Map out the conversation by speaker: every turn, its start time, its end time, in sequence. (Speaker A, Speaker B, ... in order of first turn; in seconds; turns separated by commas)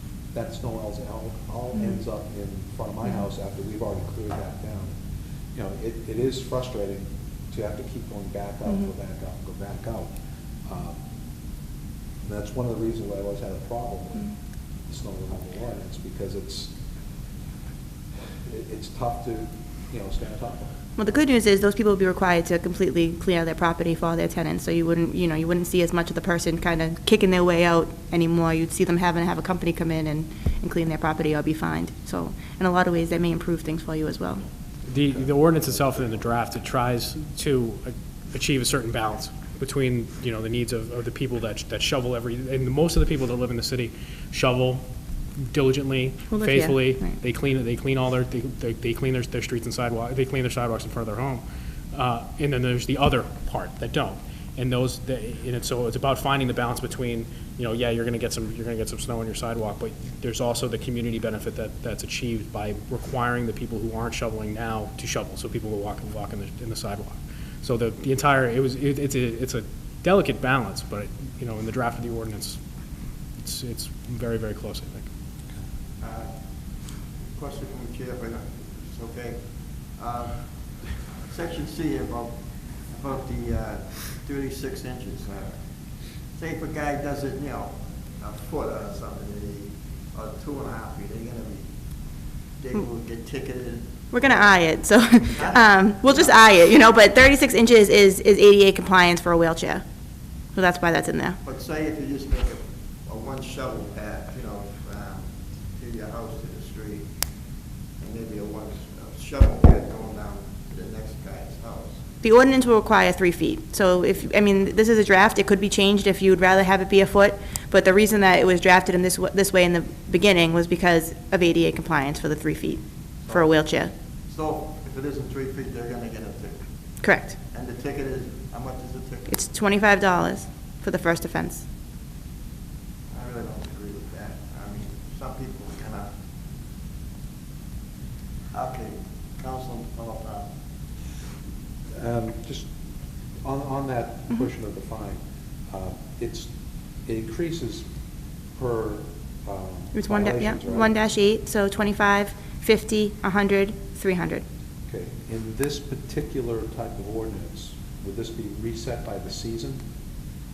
Speaker A: 0.3-5.0, Speaker B: 1.7-2.0, Speaker A: 5.5-11.0, Speaker A: 12.2-14.3, Speaker A: 14.8-16.8, Speaker A: 18.4-20.8, Speaker B: 21.0-34.5, Speaker C: 34.9-44.8, Speaker A: 34.9-36.3, Speaker C: 45.4-72.6, Speaker B: 46.3-47.2, Speaker C: 73.4-75.1, Speaker D: 76.0-96.4, Speaker B: 94.1-99.8, Speaker B: 100.5-101.4, Speaker D: 101.4-107.1, Speaker D: 108.0-112.1, Speaker B: 112.2-123.9, Speaker D: 123.2-126.7, Speaker B: 127.0-127.3, Speaker D: 127.5-129.4, Speaker B: 129.3-131.7, Speaker D: 133.1-136.1, Speaker D: 138.5-140.5, Speaker A: 141.9-142.7, Speaker A: 143.4-147.9, Speaker A: 148.5-150.9, Speaker B: 149.9-154.4, Speaker A: 154.9-159.8